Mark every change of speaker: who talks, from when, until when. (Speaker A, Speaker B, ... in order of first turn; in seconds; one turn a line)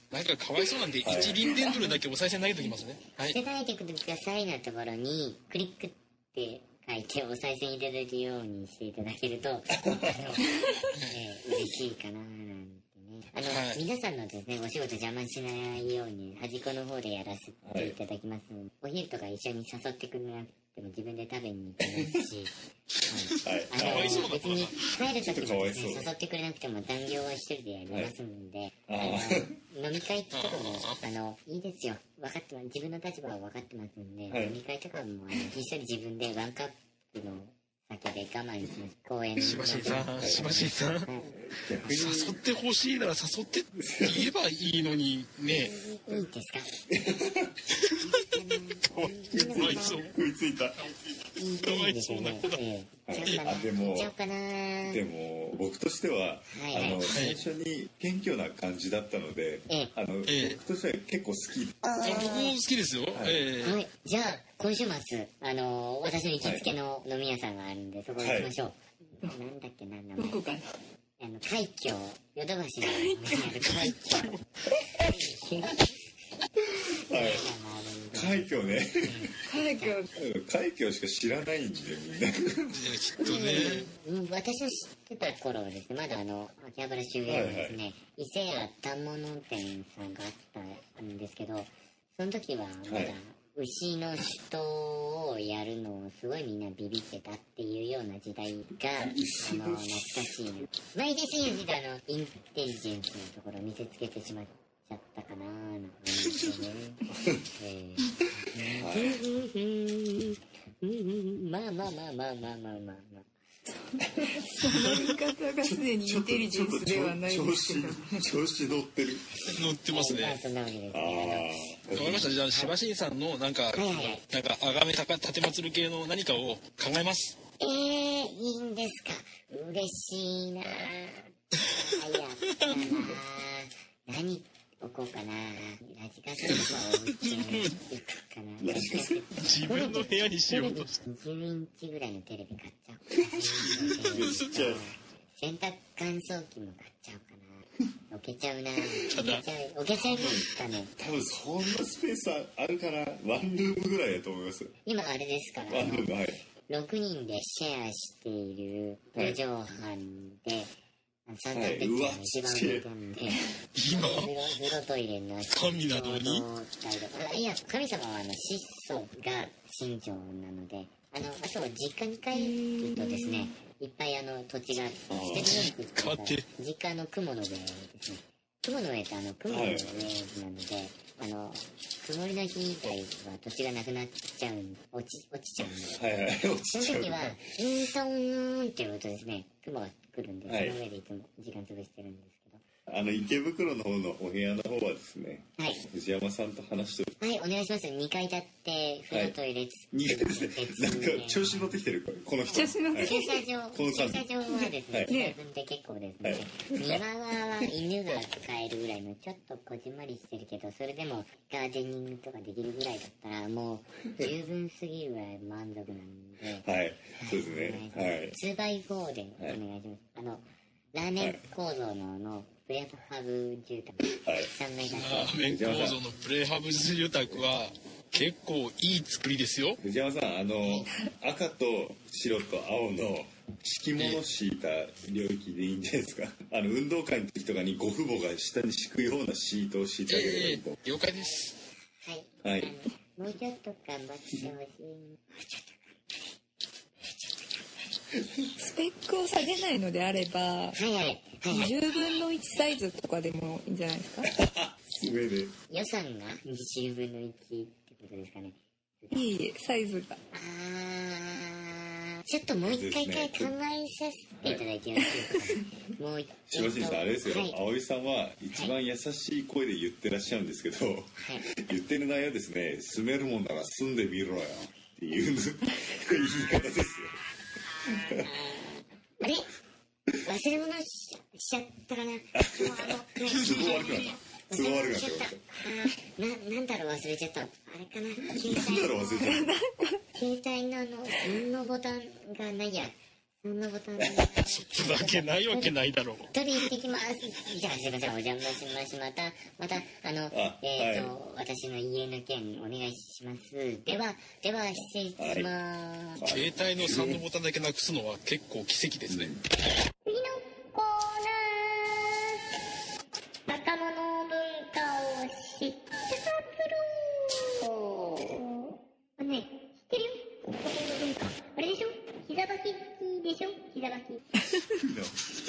Speaker A: 0.1-3.4
Speaker B: 1.0-1.5
Speaker C: 1.5-2.0
Speaker D: 3.2-10.5
Speaker B: 9.7-10.4
Speaker D: 11.1-22.6
Speaker A: 13.5-13.8
Speaker B: 17.6-18.0
Speaker B: 21.8-22.3
Speaker D: 23.1-41.3
Speaker B: 23.4-24.3
Speaker A: 23.7-24.9
Speaker B: 25.2-26.1
Speaker B: 27.9-28.1
Speaker B: 28.9-29.6
Speaker A: 30.3-31.0
Speaker B: 34.3-34.6
Speaker A: 39.4-41.1
Speaker B: 40.2-40.7
Speaker B: 41.3-42.4
Speaker A: 41.8-45.8
Speaker B: 43.8-44.3
Speaker D: 45.5-46.8
Speaker B: 46.9-47.5
Speaker A: 47.8-48.1
Speaker D: 48.0-50.1
Speaker A: 48.9-50.1
Speaker B: 49.2-50.9
Speaker D: 51.4-55.0
Speaker A: 51.6-52.6
Speaker B: 53.1-54.1
Speaker A: 53.2-53.5
Speaker B: 54.9-61.8
Speaker D: 56.5-57.0
Speaker A: 57.1-57.4
Speaker A: 60.3-60.6
Speaker D: 61.8-62.6
Speaker A: 62.0-63.8
Speaker B: 63.1-63.4
Speaker D: 63.6-70.4
Speaker B: 66.4-66.7
Speaker B: 68.2-68.5
Speaker C: 70.2-70.8
Speaker D: 71.2-74.4
Speaker C: 72.8-73.5
Speaker A: 73.6-74.4
Speaker D: 74.9-75.9
Speaker D: 76.8-80.0
Speaker B: 77.0-77.5
Speaker B: 78.1-79.3
Speaker C: 79.5-80.1
Speaker B: 80.1-82.9
Speaker A: 82.7-83.9
Speaker D: 83.2-113.3
Speaker B: 87.2-87.8
Speaker B: 92.8-93.2
Speaker B: 99.0-100.4
Speaker B: 107.1-107.5
Speaker B: 108.7-109.2
Speaker B: 114.0-114.5
Speaker C: 114.4-118.2
Speaker B: 115.6-119.5
Speaker A: 119.5-120.4
Speaker D: 119.9-121.7
Speaker B: 120.9-122.4
Speaker A: 121.9-127.4
Speaker D: 123.7-124.2
Speaker D: 127.6-150.9
Speaker A: 132.5-133.1
Speaker A: 136.4-137.8
Speaker B: 138.6-139.3
Speaker A: 139.4-141.0
Speaker B: 143.2-144.9
Speaker A: 144.0-144.8
Speaker A: 149.0-149.4
Speaker B: 149.9-154.8
Speaker D: 154.9-156.1
Speaker B: 155.7-156.4
Speaker D: 156.7-160.8
Speaker B: 159.2-159.4
Speaker D: 161.3-186.0
Speaker B: 161.5-162.9
Speaker A: 163.8-164.3
Speaker A: 165.5-166.5
Speaker C: 172.3-173.6
Speaker B: 175.1-175.7
Speaker A: 175.3-176.5
Speaker B: 179.5-180.1
Speaker B: 185.6-187.6
Speaker D: 186.7-192.6
Speaker B: 190.5-190.8
Speaker B: 192.9-197.2
Speaker D: 197.2-201.8
Speaker B: 199.1-199.4
Speaker B: 199.9-203.2
Speaker C: 202.5-203.5
Speaker D: 202.5-216.7
Speaker B: 203.7-204.3
Speaker C: 204.5-205.4
Speaker B: 204.9-205.1
Speaker B: 206.2-207.0
Speaker B: 216.6-218.4
Speaker D: 217.2-225.3
Speaker B: 224.1-224.5
Speaker A: 224.9-229.8
Speaker B: 225.1-226.0
Speaker B: 229.8-240.8
Speaker D: 230.6-230.9
Speaker A: 240.1-241.6
Speaker D: 242.0-245.7
Speaker B: 242.4-242.7
Speaker C: 248.6-250.8
Speaker D: 250.8-251.8
Speaker C: 251.5-254.4
Speaker B: 254.2-255.5
Speaker D: 255.7-259.3
Speaker C: 259.1-260.2
Speaker D: 260.3-267.6
Speaker B: 262.6-263.6
Speaker B: 264.4-264.6
Speaker B: 266.5-277.2
Speaker D: 271.2-271.5
Speaker B: 277.9-278.3
Speaker D: 278.1-279.5
Speaker D: 280.2-289.3
Speaker B: 282.3-285.4
Speaker A: 283.2-284.2
Speaker B: 288.3-289.6
Speaker C: 289.2-290.0
Speaker D: 290.2-295.8
Speaker A: 294.3-296.3
Speaker D: 296.3-306.2
Speaker B: 300.3-301.1
Speaker B: 305.2-305.5
Speaker B: 306.2-307.2
Speaker A: 306.3-309.3
Speaker B: 309.1-309.4
Speaker E: 310.1-312.4
Speaker E: 313.5-324.3
Speaker B: 324.8-325.2